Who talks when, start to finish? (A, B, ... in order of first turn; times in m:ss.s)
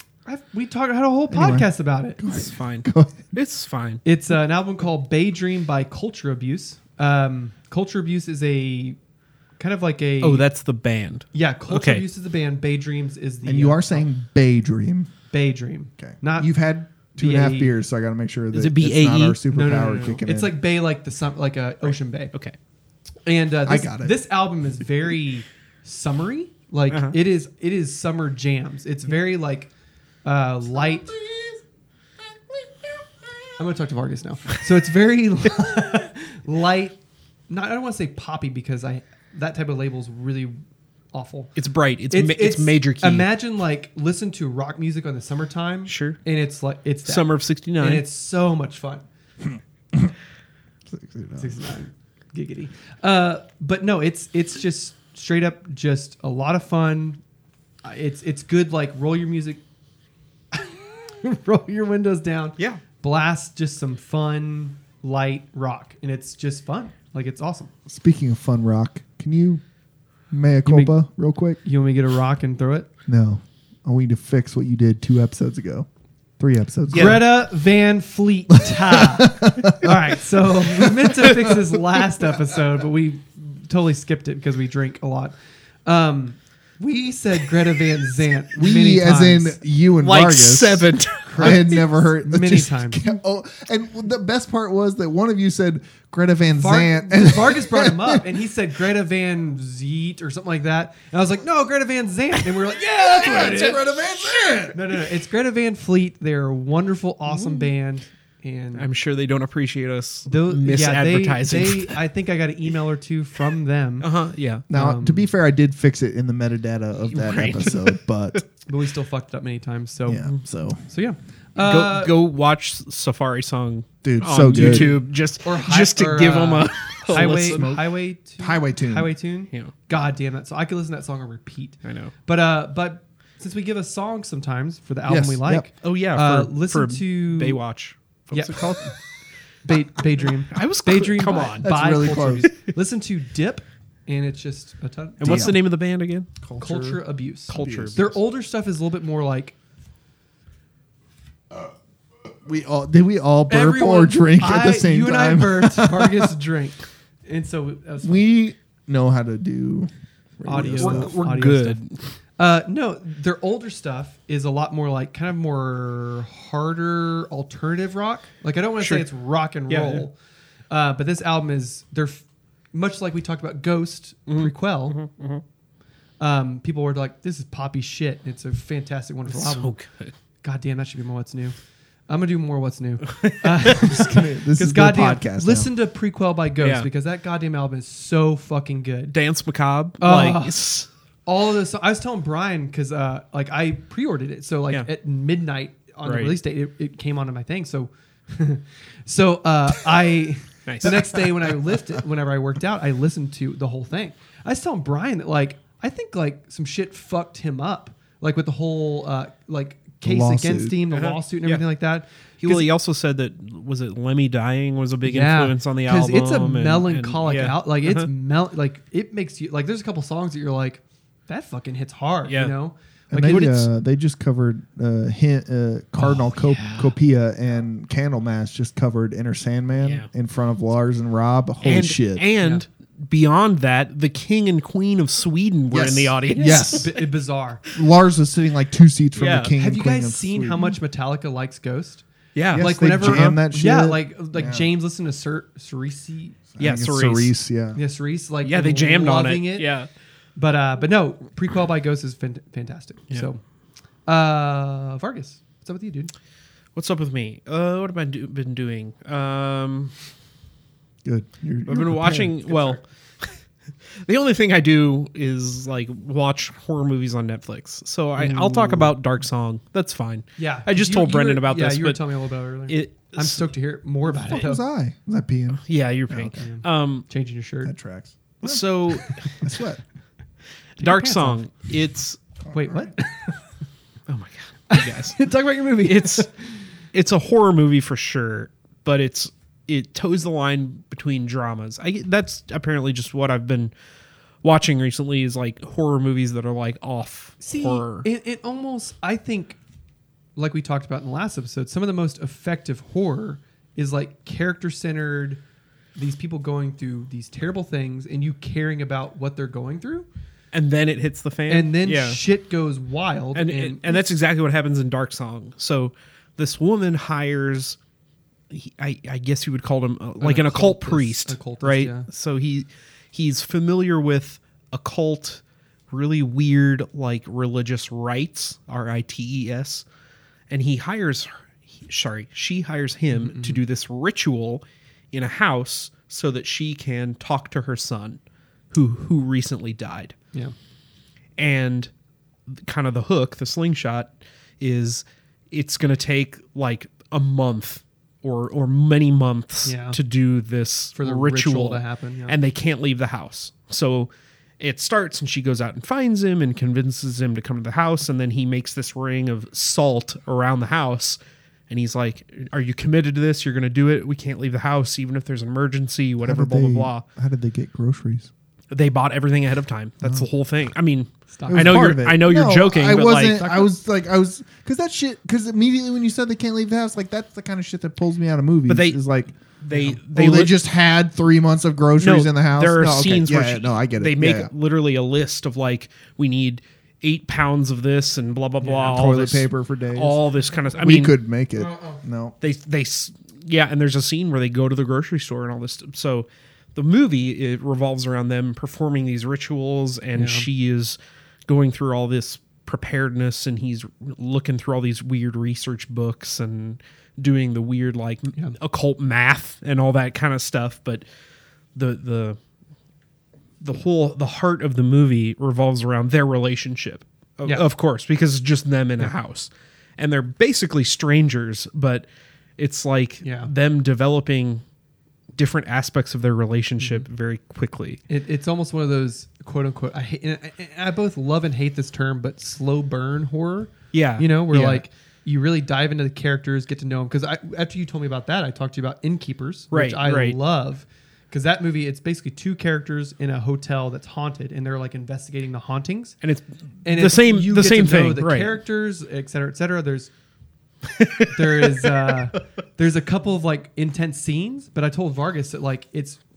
0:00.3-0:02.2 A
0:01.3-0:03.3 B
0:02.3-0:04.0 C
0:04.0-0:09.0 A
0:09.6-0:10.4 A
0:10.2-0:12.0 C
0:11.3-0:14.0 A
0:13.5-0:15.1 B
0:15.3-0:16.5 A
0:16.0-0:20.5 B
0:17.1-0:17.7 A
0:18.5-0:19.4 C
0:19.5-0:22.3 A
0:23.3-0:29.7 A
0:23.7-0:24.2 B
0:26.9-0:27.2 C
0:30.2-0:31.1 A
0:31.1-0:31.6 B
0:32.3-0:33.1 B
0:33.6-0:40.6 A
0:41.1-0:41.5 A
0:41.6-0:43.3 C
0:42.1-0:49.0 A
0:45.9-0:46.2 C
0:47.1-0:48.0 C
0:50.9-0:51.6 B
0:51.4-0:57.2 A
0:57.8-0:59.6 A
1:00.5-1:07.7 A
1:07.9-1:09.6 B
1:10.3-1:11.6 B
1:10.7-1:10.9 A
1:11.6-1:12.9 A
1:13.1-1:15.9 B
1:16.4-1:17.2 B
1:16.9-1:17.2 C
1:16.9-1:29.6 A
1:18.7-1:19.9 B
1:28.5-1:38.2 B
1:30.0-1:31.7 C
1:31.3-1:33.0 A
1:36.6-1:43.8 A
1:42.8-1:45.0 B
1:43.3-1:43.7 C
1:44.7-1:48.9 A
1:47.3-1:47.7 C
1:48.8-1:52.0 C
1:50.3-1:54.1 A
1:54.0-1:54.6 C
1:54.7-1:58.4 B
1:54.7-1:55.3 A
1:57.1-1:58.4 C
1:58.7-2:00.3 A
2:00.1-2:00.8 B
2:00.9-2:02.2 A
2:01.6-2:07.8 C
2:04.0-2:04.9 B
2:04.5-2:17.6 A
2:07.1-2:09.1 B
2:11.8-2:12.1 C
2:15.1-2:15.7 B
2:15.8-2:19.0 C
2:18.3-2:18.9 A
2:19.6-2:25.6 A
2:20.5-2:21.7 C
2:21.6-2:22.5 B
2:25.2-2:26.4 C
2:25.2-2:25.6 B
2:26.4-2:28.2 B
2:26.6-2:29.6 A
2:27.5-2:28.0 C
2:32.4-2:36.3 B
2:33.5-2:38.2 A
2:38.0-2:41.1 B
2:40.4-2:41.8 A
2:40.6-2:42.0 C
2:42.4-2:50.2 A
2:48.8-2:49.0 C
2:49.7-2:50.1 C
2:50.7-2:55.0 A
2:54.3-2:55.4 C
2:56.2-2:59.7 A
2:59.3-3:00.1 C
3:00.4-3:01.6 A
3:02.1-3:09.2 A
3:03.1-3:03.9 C
3:03.8-3:05.7 B
3:06.6-3:06.9 C
3:09.1-3:10.9 C
3:10.0-3:10.6 A
3:11.3-3:32.7 A
3:16.0-3:16.4 C
3:20.7-3:21.0 C
3:30.0-3:30.8 B
3:30.9-3:31.6 C
3:32.4-3:38.1 C
3:35.0-3:43.7 A
3:42.3-3:42.5 C
3:43.1-3:52.2 B
3:43.3-3:43.6 C
3:46.0-3:46.9 A
3:49.8-3:50.1 C
3:51.6-3:57.0 C
3:55.7-3:56.9 B
3:56.3-3:57.6 A
3:57.7-4:00.8 B
3:59.2-3:59.5 C
3:59.6-4:06.4 A
4:02.4-4:03.4 C
4:02.5-4:04.7 B
4:06.5-4:07.8 B
4:06.6-4:07.3 C
4:07.8-4:09.7 A
4:08.4-4:09.9 C
4:10.4-4:13.4 A
4:14.1-4:16.1 A
4:16.8-4:19.9 C
4:21.0-4:22.8 B
4:21.7-4:23.3 C
4:24.0-4:32.0 C
4:28.2-4:28.9 B
4:30.4-4:34.6 A
4:32.7-4:33.5 C
4:34.1-4:36.4 B
4:35.6-4:37.0 C
4:36.4-4:37.7 A
4:37.6-4:38.6 B
4:38.4-4:39.4 C
4:39.2-4:39.8 B
4:40.8-4:42.2 C
4:40.8-4:41.4 A
4:42.5-4:42.9 B
4:42.5-4:43.3 A
4:44.1-4:45.2 C
4:44.7-4:46.3 A
4:45.8-4:46.3 C
4:46.9-4:53.7 C
4:54.4-4:58.1 C
4:57.4-4:59.6 A
5:00.4-5:05.4 A
5:06.0-5:10.1 A
5:10.5-5:12.2 C
5:11.5-5:14.1 A
5:13.4-5:17.8 C
5:18.5-5:29.8 C
5:20.2-5:22.1 A
5:30.5-5:38.2 C
5:33.1-5:33.6 A
5:38.7-5:40.2 C
5:41.4-5:41.9 C
5:42.5-6:07.0 C
5:49.6-5:50.0 A
5:51.0-5:52.4 A
6:06.2-6:08.3 B
6:08.7-6:13.6 C
6:11.3-6:11.9 A
6:11.5-6:24.5 B
6:13.4-6:13.7 A
6:18.7-6:19.0 C
6:19.6-6:20.6 C
6:22.0-6:31.2 C
6:28.6-6:29.0 A
6:28.8-6:30.2 B
6:30.8-6:32.4 B
6:31.6-6:32.0 A
6:32.4-6:51.0 C
6:40.2-6:40.5 A
6:51.8-6:52.4 C
6:53.6-7:02.1 C
7:02.6-7:04.6 C
7:03.2-7:03.5 A
7:05.4-7:08.0 C
7:06.8-7:07.0 A
7:08.1-7:26.2 A
7:13.9-7:14.8 C
7:19.7-7:20.4 C
7:26.2-7:28.6 C
7:26.8-7:30.1 A
7:30.9-7:31.9 C
7:31.3-7:36.2 A